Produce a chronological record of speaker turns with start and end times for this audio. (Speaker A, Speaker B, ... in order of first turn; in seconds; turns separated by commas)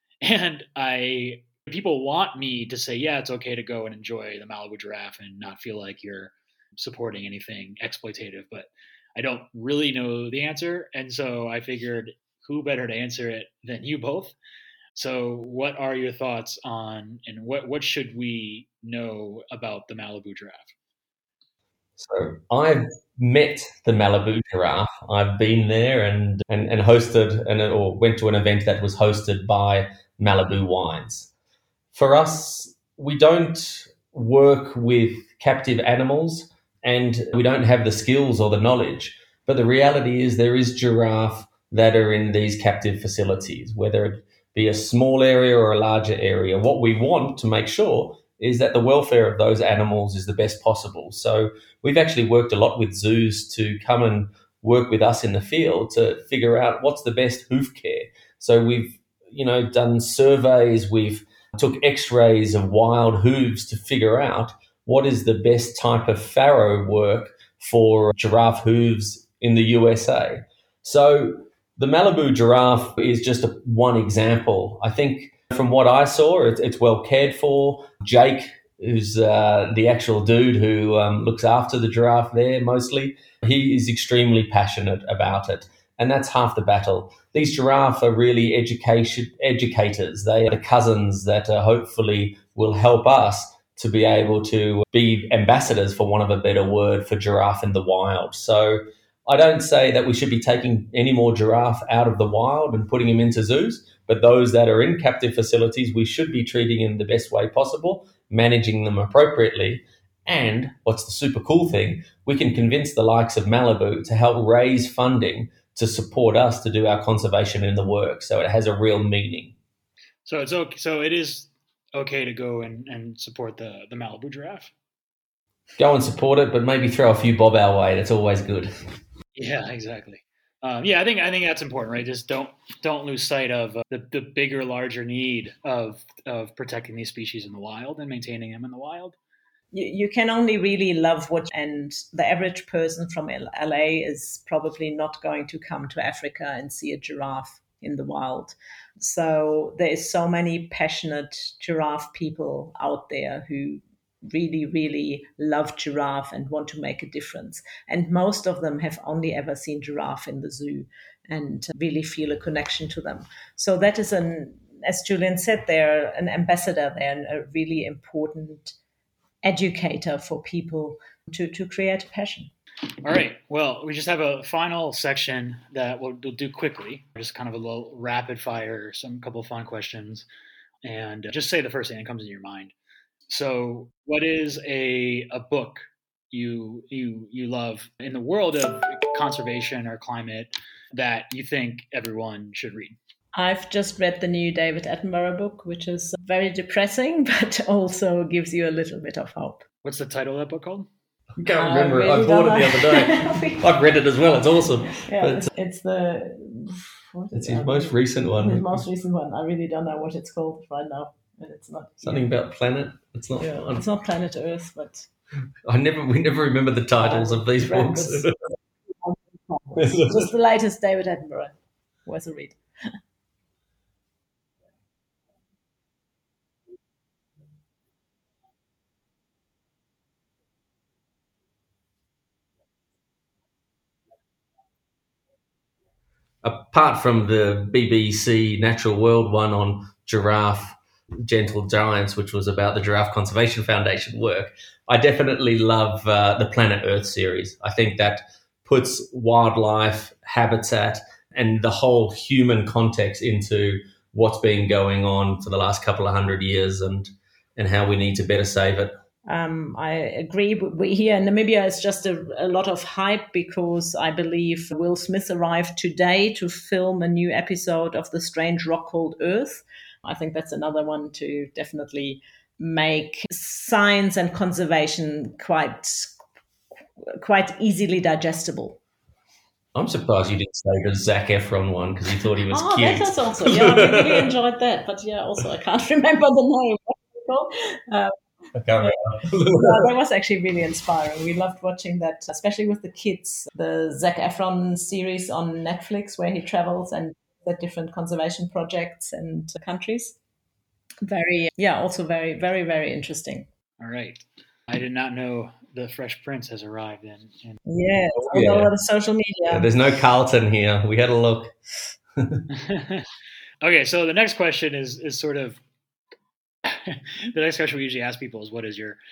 Speaker A: 0.2-14.3, Speaker A: 14.9-20.7, Speaker B: 22.0-31.3, Speaker B: 31.9-119.5, Speaker A: 120.3-124.7, Speaker B: 125.8-128.7, Speaker A: 129.3-139.2, Speaker C: 139.7-168.8, Speaker C: 169.4-172.5, Speaker A: 173.0-180.3, Speaker A: 180.8-182.7, Speaker A: 183.3-193.0, Speaker C: 193.3-199.6, Speaker A: 199.8-200.9, Speaker B: 201.4-205.5, Speaker C: 201.5-203.7, Speaker C: 204.9-212.3, Speaker B: 207.3-208.8, Speaker B: 212.0-213.8, Speaker C: 213.4-215.1, Speaker B: 215.7-218.3, Speaker C: 217.0-218.3, Speaker C: 219.0-222.9, Speaker B: 219.8-220.3, Speaker B: 236.4-258.9, Speaker C: 259.3-276.2, Speaker C: 277.0-278.8, Speaker B: 279.7-284.3, Speaker C: 282.5-288.1, Speaker B: 288.6-289.8, Speaker C: 289.5-300.2, Speaker C: 301.0-303.5, Speaker A: 303.8-307.6, Speaker C: 307.7-309.7, Speaker B: 308.2-308.7, Speaker B: 309.5-311.5, Speaker A: 312.5-313.1, Speaker A: 313.6-315.6, Speaker A: 316.6-319.0